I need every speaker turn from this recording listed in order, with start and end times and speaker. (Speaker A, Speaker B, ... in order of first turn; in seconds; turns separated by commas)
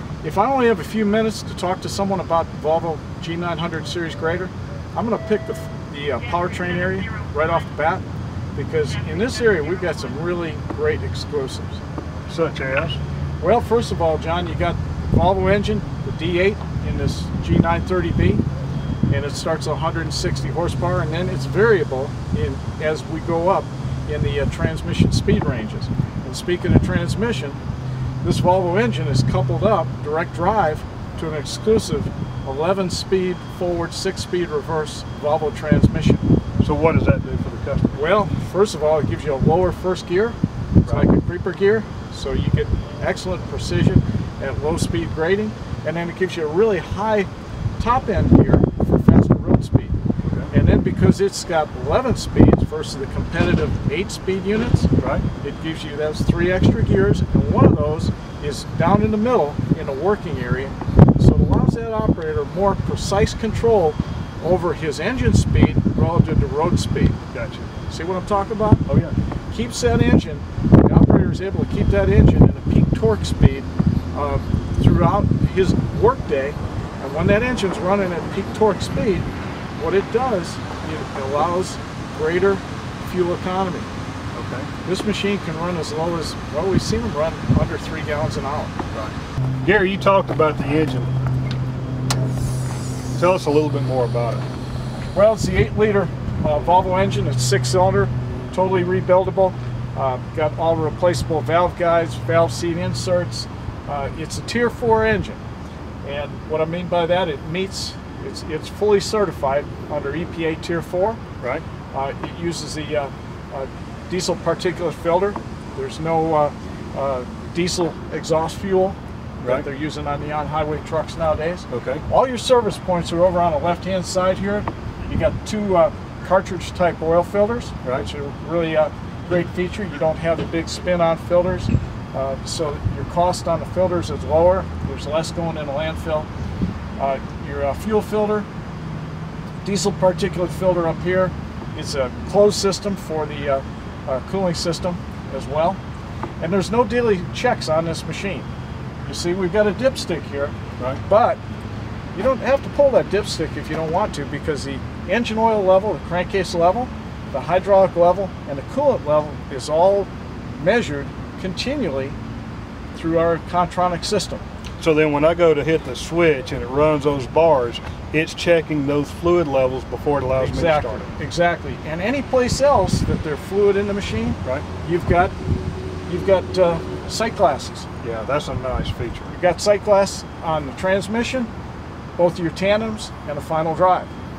Speaker A: 0.2-8.0, Speaker A: 8.5-11.8, Speaker B: 12.3-13.0, Speaker A: 13.4-18.4, Speaker A: 19.1-27.6, Speaker A: 28.2-36.2, Speaker B: 36.6-38.1, Speaker A: 37.9-50.0, Speaker B: 50.2-50.5, Speaker A: 50.5-67.2, Speaker B: 55.0-55.2, Speaker B: 67.3-67.7, Speaker A: 67.9-68.8, Speaker B: 68.9-69.2, Speaker A: 69.5-83.9, Speaker B: 84.3-84.7, Speaker A: 84.8-88.7, Speaker B: 88.9-91.1, Speaker B: 93.1-94.5, Speaker A: 95.1-105.4, Speaker A: 106.0-111.2, Speaker A: 111.9-136.3, Speaker B: 121.7-122.0, Speaker A: 137.0-138.5, Speaker A: 139.6-145.8, Speaker A: 146.4-148.5, Speaker A: 149.1-151.4, Speaker A: 152.1-162.2, Speaker A: 162.9-164.4, Speaker B: 164.8-171.1, Speaker A: 170.4-175.3, Speaker A: 176.1-177.9, Speaker B: 178.0-179.3, Speaker A: 179.3-181.5, Speaker A: 182.2-184.1